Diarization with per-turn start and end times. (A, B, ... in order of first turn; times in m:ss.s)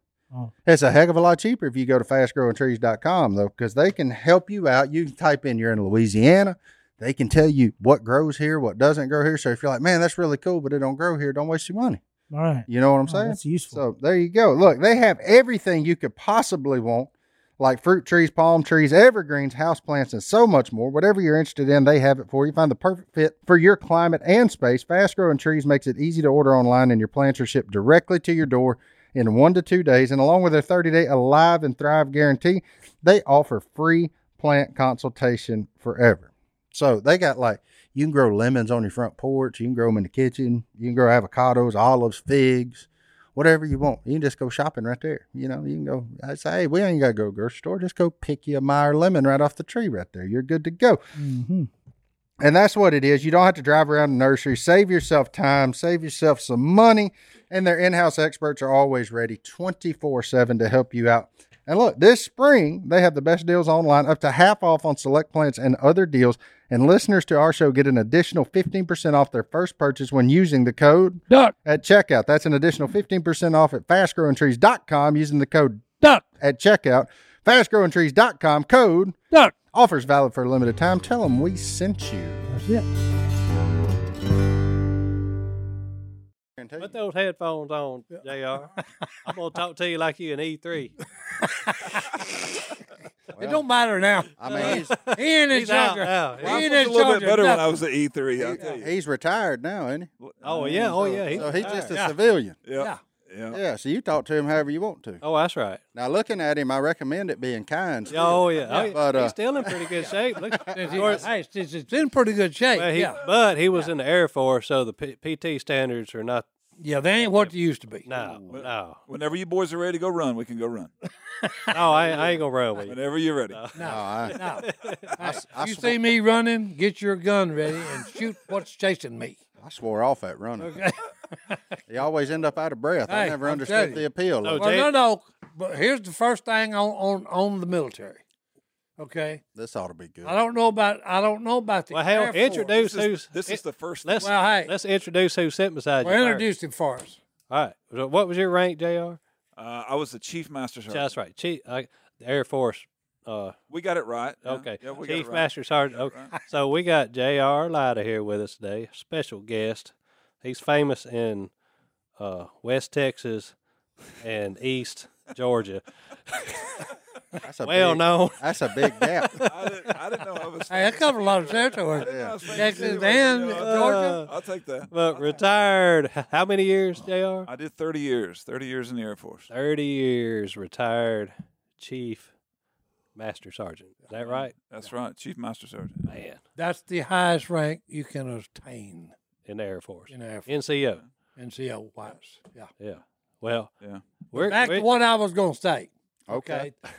0:00.6-0:12.0 A
0:12.3-0:13.8 B
0:12.7-0:51.0 A
0:51.2-0:51.7 B
0:52.4-1:15.8 A
1:16.4-1:19.2 A
1:19.7-1:22.5 A
1:22.5-1:22.8 C
1:26.6-1:26.9 A
1:26.8-1:30.9 D
1:31.4-1:32.2 C
1:33.3-1:33.6 A
1:33.3-1:37.7 C
1:34.4-1:35.0 A
1:34.5-1:36.7 D
1:36.4-1:38.9 E
1:38.4-1:40.1 A
1:40.2-1:42.1 E
1:40.4-1:42.0 D
1:41.2-1:42.6 A
1:42.6-1:43.6 E
1:43.5-1:45.2 A
1:45.2-1:45.8 D
1:45.9-1:51.2 A
1:48.1-1:51.2 D
1:48.7-1:48.9 C
1:50.7-1:53.2 C
1:52.7-1:56.4 D
1:56.8-1:58.3 C
1:57.2-1:57.5 D
1:58.0-1:59.0 D
1:58.5-2:00.9 E
2:01.4-2:02.0 C
2:01.7-2:03.0 D
2:02.8-2:03.6 E
2:03.5-2:05.1 D
2:03.7-2:09.4 C
2:03.8-2:04.4 A
2:05.2-2:06.0 A
2:09.6-2:10.7 A
2:10.6-2:11.6 C
2:11.9-2:14.6 A
2:13.1-2:14.0 C
2:14.4-2:14.9 D
2:14.6-2:18.2 C
2:19.0-2:19.4 C
2:19.6-2:20.4 A
2:20.2-2:22.8 C
2:21.9-2:26.4 D
2:22.7-2:24.4 E
2:24.2-2:24.7 C
2:26.0-2:27.2 C
2:27.5-2:29.2 D
2:29.6-2:31.1 E
2:30.9-2:33.6 D
2:33.7-2:36.3 E
2:34.4-2:41.5 D
2:42.2-2:43.5 D
2:44.2-2:46.8 D
2:47.4-2:49.3 A
2:47.6-2:49.9 D
2:49.4-2:55.4 E
2:50.7-2:54.3 C
2:52.0-2:52.6 A
2:53.5-2:54.3 D
2:54.9-2:57.5 D
2:57.4-2:59.5 E
2:59.5-3:02.3 D
3:03.2-3:04.5 D
3:04.2-3:06.1 E
3:06.1-3:06.4 D
3:06.6-3:09.1 C
3:09.4-3:11.0 D
3:10.1-3:10.5 C
3:11.4-3:12.7 C
3:12.8-3:13.7 D
3:14.3-3:14.9 D
3:14.3-3:16.7 C
3:16.3-3:16.7 A